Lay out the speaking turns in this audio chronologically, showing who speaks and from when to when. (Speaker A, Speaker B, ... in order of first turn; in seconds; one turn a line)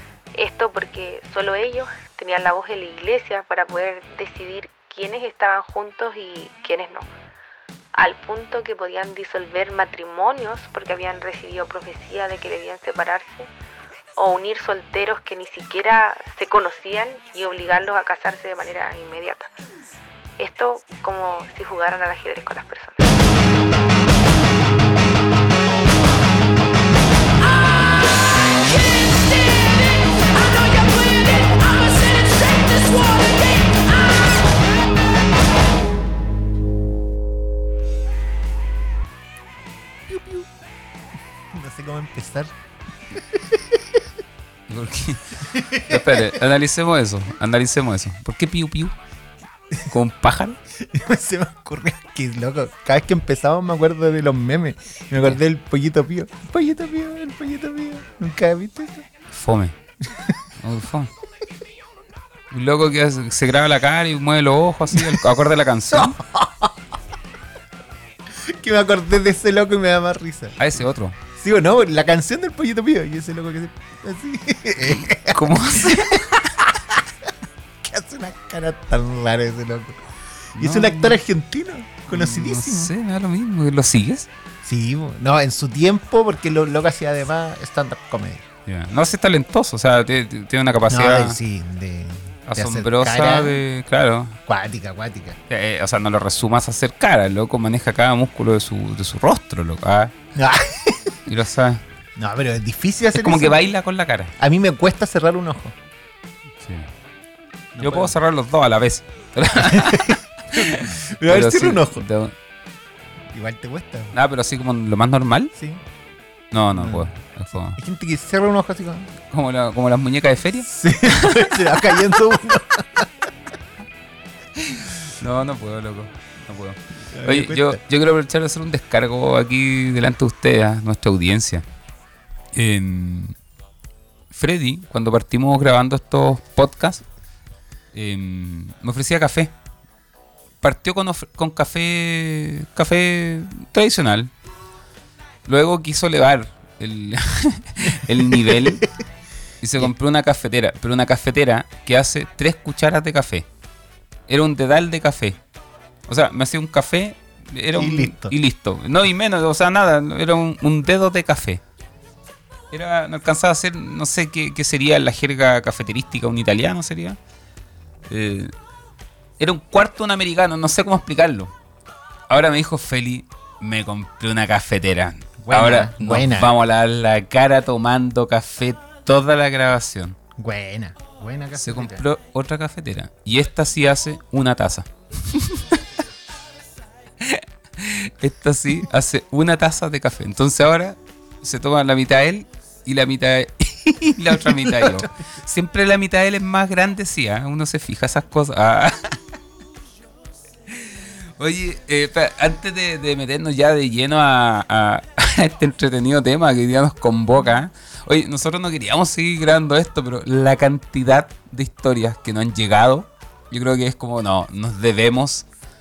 Speaker A: 0.3-7.1
Speaker A: 8.0-13.5
Speaker A: 14.2-19.5
Speaker A: 20.4-23.1
Speaker A: 27.6-27.9
Speaker A: 30.4-33.9
Speaker B: 40.1-40.5
Speaker B: 41.5-42.5
Speaker B: 43.1-44.0
Speaker C: 44.7-49.0
Speaker B: 45.4-46.4
Speaker C: 49.9-50.6
Speaker B: 50.8-59.1
Speaker C: 59.3-59.8
Speaker B: 60.1-60.4
Speaker C: 60.6-61.1
Speaker C: 62.5-66.2
Speaker B: 64.9-65.3
Speaker B: 65.9-66.8
Speaker B: 68.3-70.6
Speaker C: 70.6-71.2
Speaker B: 71.3-77.3
Speaker C: 74.8-76.6
Speaker B: 77.8-82.9
Speaker C: 80.6-81.2
Speaker C: 82.1-84.3
Speaker B: 84.6-88.5
Speaker C: 88.7-91.4
Speaker B: 90.9-93.6
Speaker C: 92.5-94.4
Speaker B: 94.5-95.4
Speaker C: 95.5-100.2
Speaker B: 100.3-101.2
Speaker C: 101.3-101.8
Speaker B: 102.2-103.6
Speaker C: 103.2-104.3
Speaker B: 104.4-105.8
Speaker C: 106.6-106.9
Speaker B: 107.8-108.1
Speaker C: 107.8-112.4
Speaker B: 109.5-112.0
Speaker B: 113.3-114.1
Speaker C: 114.1-115.5
Speaker B: 115.5-115.8
Speaker C: 116.5-117.8
Speaker B: 116.7-117.1
Speaker B: 117.8-119.1
Speaker C: 119.3-122.2
Speaker B: 120.7-123.1
Speaker C: 124.7-131.7
Speaker B: 127.1-127.8
Speaker C: 132.6-133.3
Speaker C: 134.3-137.0
Speaker C: 137.9-139.5
Speaker C: 140.6-144.3
Speaker C: 145.5-148.9
Speaker B: 147.9-148.9
Speaker C: 149.6-153.5
Speaker C: 154.3-155.4
Speaker C: 156.1-161.6
Speaker B: 157.8-158.4
Speaker C: 162.7-167.2
Speaker C: 168.1-168.5
Speaker C: 169.4-171.5
Speaker C: 172.3-180.2
Speaker B: 175.4-176.5
Speaker B: 180.4-182.1
Speaker C: 181.6-185.8
Speaker C: 187.2-199.2
Speaker B: 194.4-195.1
Speaker C: 200.7-215.5